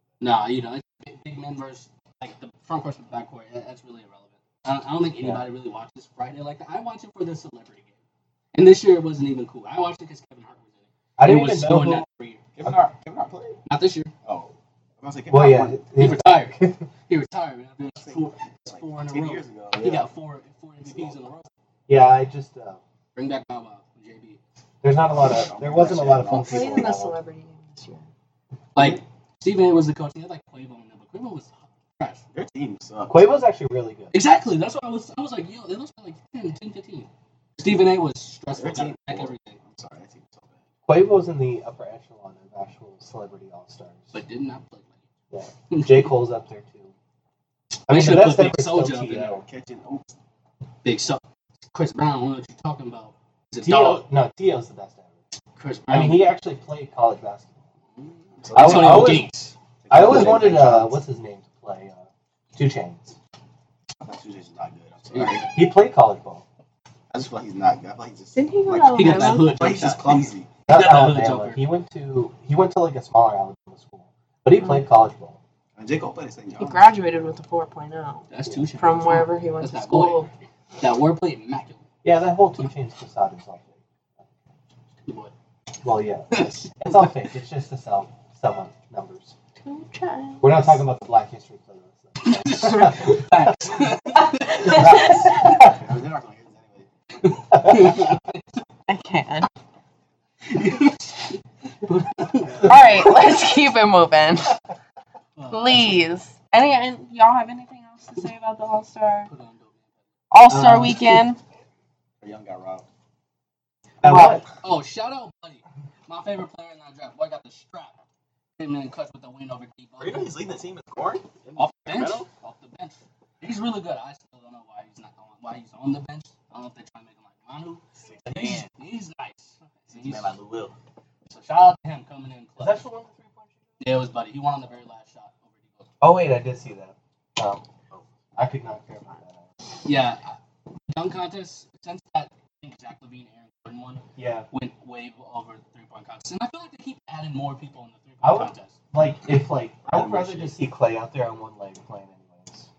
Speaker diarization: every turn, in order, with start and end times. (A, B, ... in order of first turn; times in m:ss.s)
0:00.2-0:08.0 A
0:08.5-0:12.4 A
0:11.2-0:12.0 B
0:12.5-0:13.6 C
0:13.6-0:14.1 A
0:14.2-0:15.9 C
0:15.3-0:16.8 B
0:16.0-0:21.5 A
0:17.9-0:20.1 C
0:20.8-0:21.3 C
0:21.9-0:22.8 B
0:23.1-0:24.4 A
0:24.8-0:27.1 B
0:25.2-0:26.9 C
0:26.3-0:28.0 D
0:28.8-0:32.2 A
0:28.8-0:29.0 C
0:32.3-0:33.3 C
0:33.1-0:34.1 B
0:34.1-0:39.6 A
0:38.5-0:40.6 C
0:40.9-0:44.1 B
0:44.1-0:45.1 A
0:45.3-0:46.9 B
0:45.7-0:46.1 A
0:47.9-0:49.4 A
0:47.9-0:49.4 B
0:49.2-0:50.1 C
0:50.8-0:54.0 A
0:53.6-0:55.2 B
0:55.6-0:56.4 A
0:55.9-0:57.6 B
0:58.0-1:00.4 A
0:58.3-0:59.2 C
0:58.5-0:59.3 B
0:59.8-1:01.0 C
0:59.9-1:03.2 B
1:04.0-1:05.5 C
1:05.1-1:05.5 A
1:05.5-1:06.4 B
1:07.1-1:10.5 C
1:08.4-1:09.6 D
1:08.9-1:11.6 A
1:10.6-1:15.4 B
1:15.8-1:16.9 C
1:16.6-1:18.2 D
1:18.3-1:20.2 A
1:18.8-1:20.3 D
1:20.8-1:21.8 A
1:22.0-1:24.3 B
1:25.0-1:25.3 A
1:25.8-1:29.3 B
1:26.3-1:27.1 A
1:29.6-1:30.8 D
1:30.4-1:33.9 B
1:32.2-1:35.1 A
1:34.6-1:35.8 B
1:34.6-1:35.4 D
1:34.6-1:37.4 C
1:37.2-1:38.6 A
1:37.5-1:38.1 B
1:38.9-1:39.5 D
1:40.5-1:42.8 A
1:42.6-1:44.6 D
1:42.6-1:43.1 C
1:45.4-1:46.0 A
1:45.5-1:49.3 D
1:49.2-1:50.0 A
1:50.3-1:51.4 D
1:50.5-1:51.2 B
1:52.2-1:52.9 C
1:54.0-1:54.4 B
1:54.0-1:54.4 D
1:54.6-1:58.0 A
1:58.6-2:00.3 A
2:00.0-2:02.3 C
2:01.6-2:10.4 A
2:08.0-2:08.7 C
2:09.9-2:10.7 C
2:11.2-2:12.8 A
2:12.6-2:13.7 B
2:13.8-2:15.9 A
2:16.0-2:17.6 B
2:18.4-2:19.5 B
2:19.8-2:20.4 A
2:20.9-2:28.8 A
2:24.2-2:24.5 B
2:28.2-2:32.7 B
2:29.9-2:30.5 C